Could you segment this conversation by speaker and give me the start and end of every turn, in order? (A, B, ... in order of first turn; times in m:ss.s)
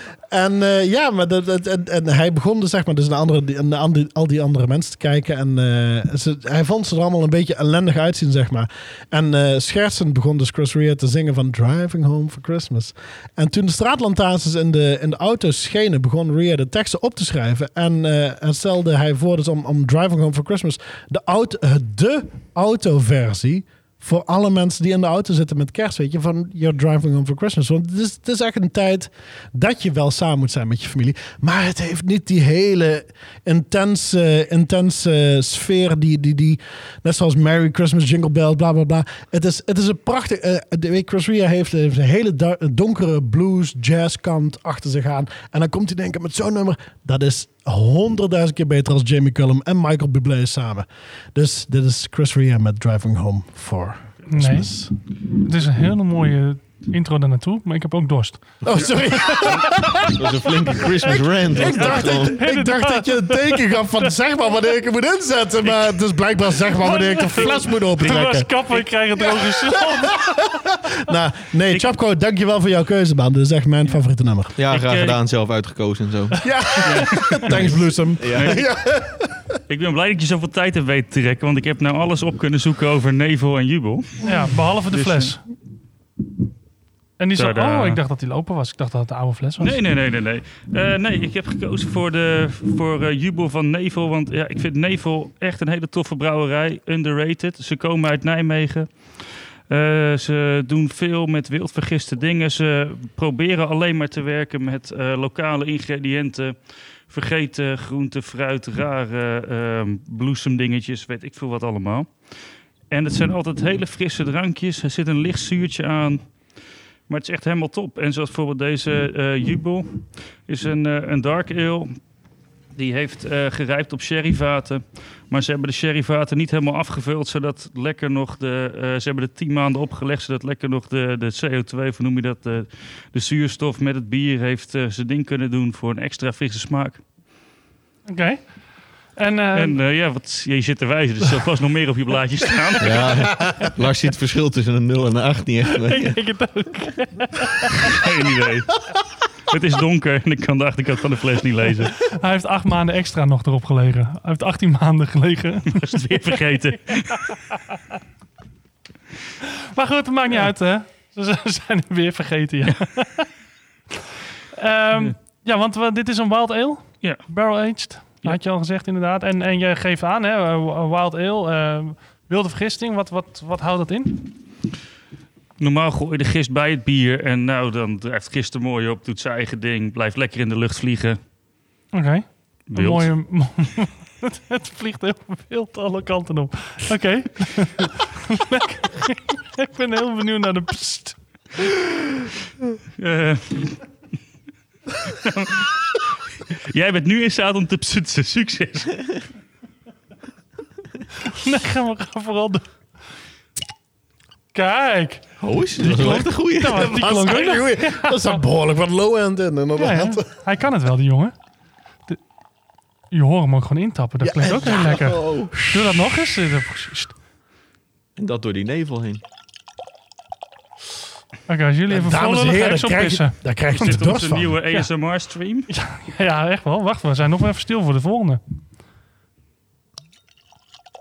0:00.3-0:54.9 A
0:54.3-0:54.7 B
0:55.4-0:58.4 B
0:58.6-1:08.5 A
1:00.1-1:02.4 C
1:01.6-1:03.8 B
1:06.8-1:10.4 B
1:09.4-1:14.5 A
1:14.6-1:16.5 C
1:14.7-1:15.2 D
1:16.4-1:19.5 A
1:16.8-1:17.7 D
1:17.5-1:18.6 C
1:18.3-1:18.6 D
1:19.7-1:24.2 D
1:24.2-1:25.4 B
1:24.9-1:25.4 D
1:27.2-1:29.8 B
1:27.4-1:28.0 D
1:29.6-1:52.3 D
1:52.9-1:56.2 D
1:57.1-2:02.0 D
2:02.8-2:17.0 D
2:18.1-2:18.4 B
2:19.2-2:19.8 B
2:19.6-2:23.0 D
2:22.8-2:26.2 C
2:25.9-2:27.9 B
2:27.9-2:28.8 D
2:29.5-2:32.0 D
2:32.1-2:36.0 B
2:35.7-2:37.4 D
2:39.5-2:43.3 B
2:44.6-2:54.3 B
2:55.6-3:01.2 D
3:01.9-3:11.2 B
3:02.7-3:03.1 D
3:13.0-3:13.8 D
3:15.1-3:19.2 D
3:21.2-3:22.6 B
3:24.5-3:25.2 B
3:25.4-3:27.0 C
3:25.8-3:28.4 B
3:26.7-3:30.3 A
3:29.8-3:31.3 B
3:33.1-3:37.1 B
3:34.2-3:35.7 A
3:34.5-3:35.6 C
3:38.2-3:39.2 C
3:41.5-3:43.4 B
3:41.9-3:44.6 A
3:43.8-3:45.7 D
3:45.7-3:48.4 B